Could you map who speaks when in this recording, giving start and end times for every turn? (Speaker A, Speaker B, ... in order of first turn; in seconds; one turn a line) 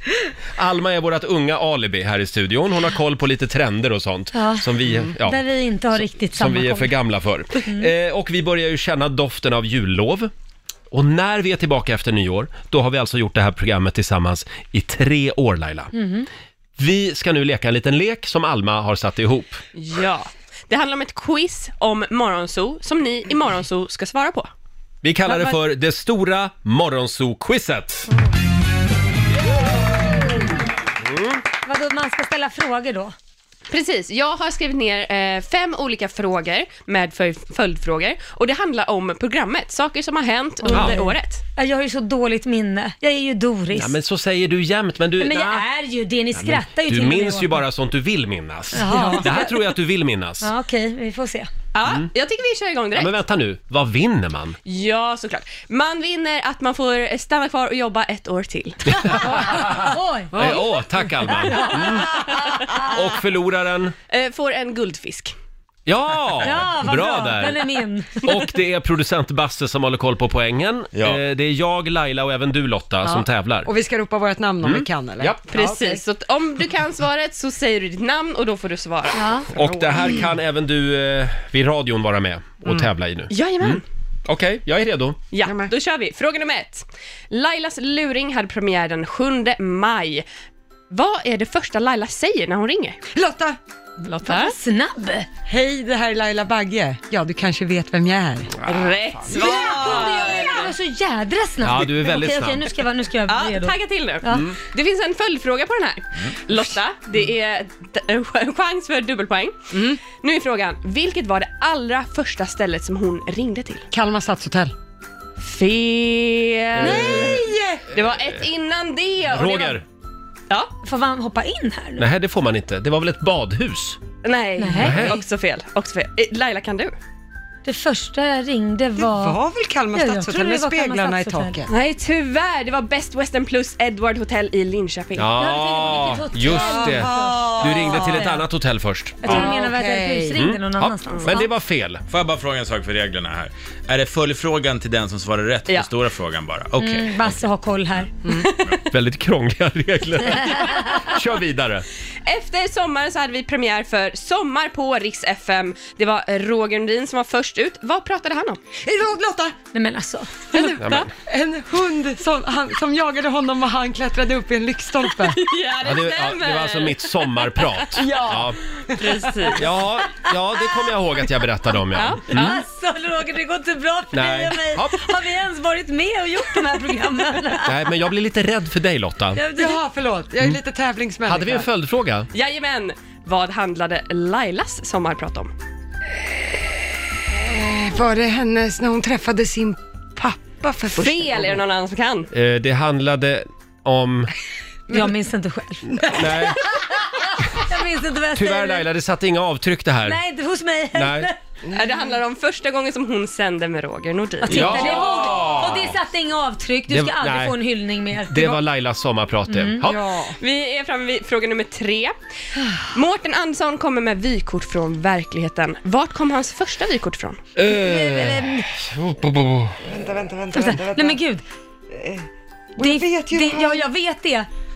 Speaker A: 0.5-5.4
Speaker B: 4.3-7.0
Speaker A: 5.9-10.3
Speaker B: 7.5-7.9
Speaker A: 10.9-15.9
Speaker B: 15.9-16.3
Speaker A: 16.8-19.6
Speaker C: 19.7-24.5
Speaker A: 25.0-28.1
Speaker B: 25.3-25.6
Speaker A: 31.0-31.4
Speaker B: 31.6-33.1
Speaker C: 33.7-41.4
Speaker B: 40.6-43.9
Speaker A: 40.7-41.0
Speaker A: 43.7-45.6
Speaker B: 45.2-47.6
Speaker A: 46.3-50.5
Speaker B: 48.7-49.6
Speaker D: 48.9-49.2
Speaker B: 50.4-51.5
Speaker C: 51.7-53.1
Speaker A: 52.9-54.6
Speaker C: 54.6-59.6
Speaker A: 59.1-59.7
Speaker B: 59.8-60.3
Speaker A: 60.3-63.9
Speaker D: 60.4-60.7
Speaker D: 61.2-62.0
Speaker C: 64.1-65.3
Speaker A: 65.8-67.6
Speaker B: 66.4-68.3
Speaker A: 68.2-73.7
Speaker E: 70.9-71.2
Speaker D: 73.0-76.0
Speaker A: 74.6-75.4
Speaker C: 75.5-79.6
Speaker B: 79.1-79.5
Speaker A: 79.5-85.2
Speaker C: 83.3-83.8
Speaker C: 85.3-90.2
Speaker D: 85.4-85.7
Speaker C: 90.9-93.0
Speaker D: 93.1-93.6
Speaker C: 94.0-94.5
Speaker B: 94.2-95.3
Speaker D: 95.5-98.5
Speaker C: 98.6-100.7
Speaker D: 99.3-99.7
Speaker B: 99.3-104.5
Speaker A: 101.6-102.7
Speaker C: 103.3-109.6
Speaker A: 104.3-104.6
Speaker D: 109.7-110.0
Speaker C: 110.1-113.8
Speaker D: 113.9-114.7
Speaker C: 115.4-119.8
Speaker D: 116.8-117.9
Speaker B: 116.8-117.2
Speaker A: 119.3-119.8
Speaker B: 120.8-122.0
Speaker A: 122.0-124.0
Speaker C: 124.2-126.9
Speaker B: 124.6-125.0
Speaker A: 124.8-125.2
Speaker B: 127.6-129.4
Speaker D: 129.0-131.7
Speaker B: 129.9-131.5
Speaker C: 131.7-135.3
Speaker A: 135.2-139.4
Speaker B: 135.4-138.4
Speaker D: 136.5-138.2
Speaker B: 139.2-141.5
Speaker D: 139.2-140.4
Speaker A: 140.3-142.0
Speaker E: 142.1-147.3
Speaker B: 146.8-148.2
Speaker C: 148.3-148.6
Speaker A: 148.9-151.8
Speaker C: 152.2-158.6
Speaker D: 158.8-159.5
Speaker B: 159.7-160.5
Speaker C: 160.5-161.1
Speaker D: 160.5-165.4
Speaker A: 160.8-161.1
Speaker C: 165.2-167.8
Speaker A: 165.8-168.6
Speaker D: 167.9-169.1
Speaker C: 169.0-169.7
Speaker A: 169.5-172.6
Speaker C: 171.9-172.6
Speaker B: 172.3-177.8
Speaker A: 174.1-175.1
Speaker A: 177.6-179.4
Speaker B: 179.3-179.8
Speaker D: 179.6-181.7
Speaker A: 181.2-182.3
Speaker C: 182.3-185.5
Speaker D: 187.3-191.6
Speaker C: 190.9-192.3
Speaker A: 192.3-194.3
Speaker B: 194.9-198.8
Speaker A: 196.0-196.6
Speaker A: 198.3-200.2
Speaker B: 200.0-201.4
Speaker A: 201.0-201.3
Speaker D: 201.7-202.0
Speaker C: 201.7-205.0
Speaker B: 204.4-208.6
Speaker A: 204.5-206.0
Speaker A: 206.9-207.6
Speaker A: 208.3-210.0
Speaker B: 209.5-209.9
Speaker D: 209.8-210.4
Speaker C: 210.4-212.1
Speaker C: 212.9-217.4
Speaker A: 217.6-219.8
Speaker B: 217.7-218.7
Speaker D: 219.8-221.2
Speaker B: 220.5-221.4
Speaker D: 221.9-223.8
Speaker B: 222.8-224.5